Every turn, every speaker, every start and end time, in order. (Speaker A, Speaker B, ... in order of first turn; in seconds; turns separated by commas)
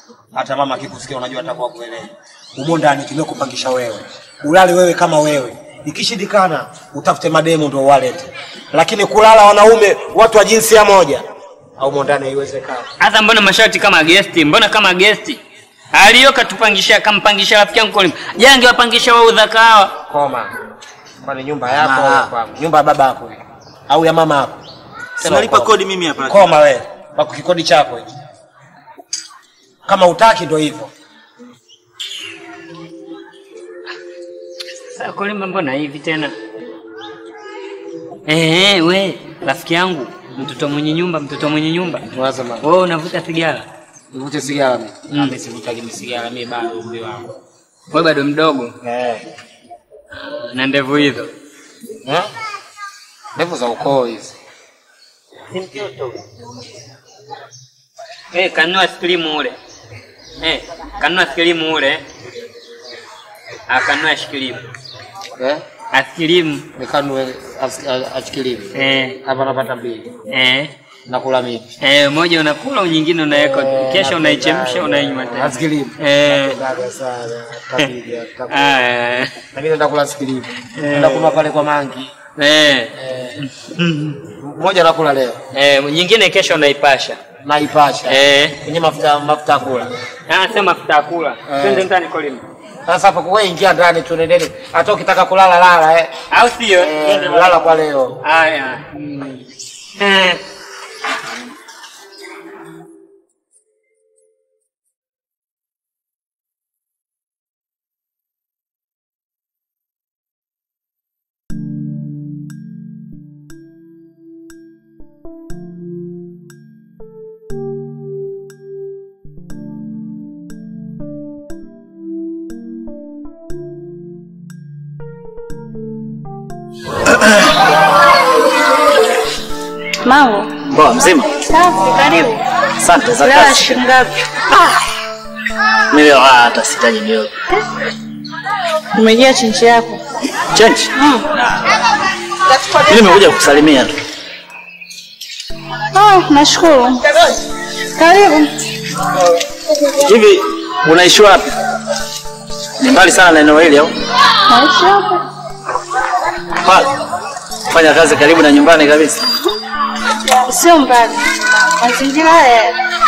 Speaker A: 0.3-11.2, Speaker A: 11.8-12.8, Speaker B: 13.0-15.4, Speaker B: 15.9-19.9, Speaker A: 20.1-20.5, Speaker A: 21.2-24.6, Speaker C: 21.7-22.3, Speaker C: 25.2-26.5, Speaker A: 25.2-28.1, Speaker A: 29.9-30.9, Speaker B: 34.9-36.3, Speaker B: 38.3-42.0, Speaker A: 42.1-42.6, Speaker B: 42.6-43.6, Speaker A: 44.1-47.2, Speaker B: 47.9-48.7, Speaker A: 48.8-49.2, Speaker B: 50.3-51.3, Speaker A: 53.4-54.3, Speaker B: 58.3-59.6, Speaker B: 60.4-62.0, Speaker B: 63.7-64.6, Speaker A: 65.4-65.6, Speaker B: 65.9-66.6, Speaker A: 66.8-70.1, Speaker B: 68.7-69.2, Speaker B: 70.3-70.7, Speaker A: 71.1-71.6, Speaker B: 71.8-76.6, Speaker A: 73.5-78.7, Speaker B: 78.5-79.3, Speaker A: 79.5-82.1, Speaker B: 80.8-81.4, Speaker B: 82.4-82.9, Speaker A: 83.0-83.3, Speaker A: 84.2-85.4, Speaker B: 85.5-87.2, Speaker A: 87.4-89.9, Speaker B: 88.1-88.6, Speaker B: 90.3-92.4, Speaker A: 91.5-91.9, Speaker A: 92.8-96.1, Speaker B: 96.3-97.1, Speaker A: 96.8-98.2, Speaker B: 98.2-99.1, Speaker B: 100.0-100.4, Speaker D: 130.0-130.5, Speaker C: 130.7-131.4, Speaker D: 131.4-132.4, Speaker C: 132.8-133.9, Speaker D: 133.1-134.0, Speaker C: 135.9-137.4, Speaker D: 138.9-140.0, Speaker C: 140.5-141.8, Speaker D: 141.0-141.3, Speaker C: 142.8-144.0, Speaker D: 145.9-147.1, Speaker D: 147.9-148.5, Speaker C: 149.9-151.6, Speaker C: 152.8-153.9, Speaker D: 154.5-155.2, Speaker C: 156.6-156.9, Speaker C: 157.7-159.3, Speaker D: 160.1-161.2, Speaker D: 161.8-162.8